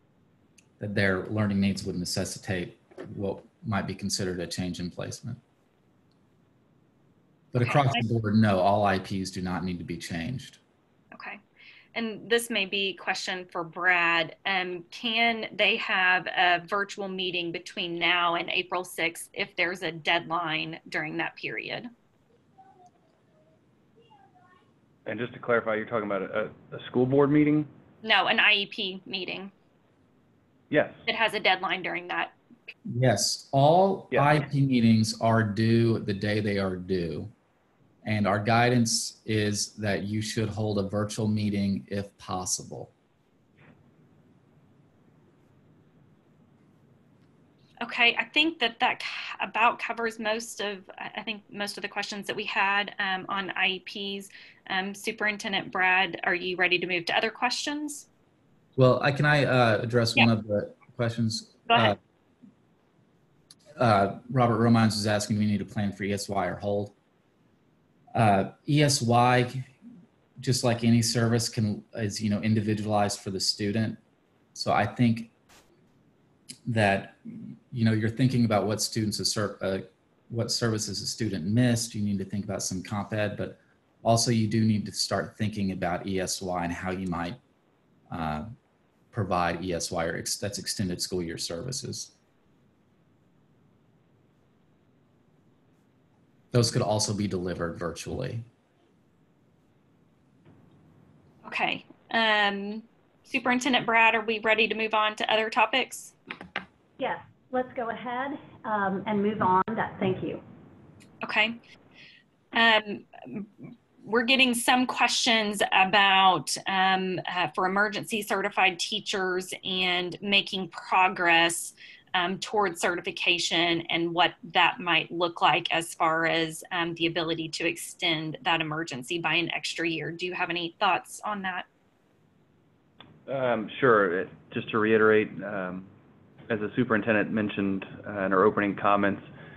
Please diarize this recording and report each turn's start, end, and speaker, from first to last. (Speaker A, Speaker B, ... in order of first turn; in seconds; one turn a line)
Speaker A: 0.8-5.4
Speaker A: 7.5-10.6
Speaker B: 7.6-8.0
Speaker B: 11.1-11.4
Speaker B: 11.9-21.9
Speaker C: 25.1-27.7
Speaker B: 28.0-29.5
Speaker C: 30.7-31.0
Speaker B: 31.1-32.4
Speaker A: 32.9-37.3
Speaker A: 38.0-42.9
Speaker B: 47.8-58.1
Speaker A: 58.8-62.0
Speaker B: 61.7-61.9
Speaker A: 63.8-66.9
Speaker A: 68.1-69.7
Speaker A: 70.4-74.0
Speaker A: 74.5-75.3
Speaker A: 76.7-87.4
Speaker A: 88.1-88.5
Speaker A: 89.1-92.1
Speaker A: 96.5-98.5
Speaker B: 101.4-106.2
Speaker D: 107.0-110.4
Speaker B: 111.2-111.6
Speaker B: 112.5-131.7
Speaker C: 133.3-135.9
Speaker C: 136.5-139.3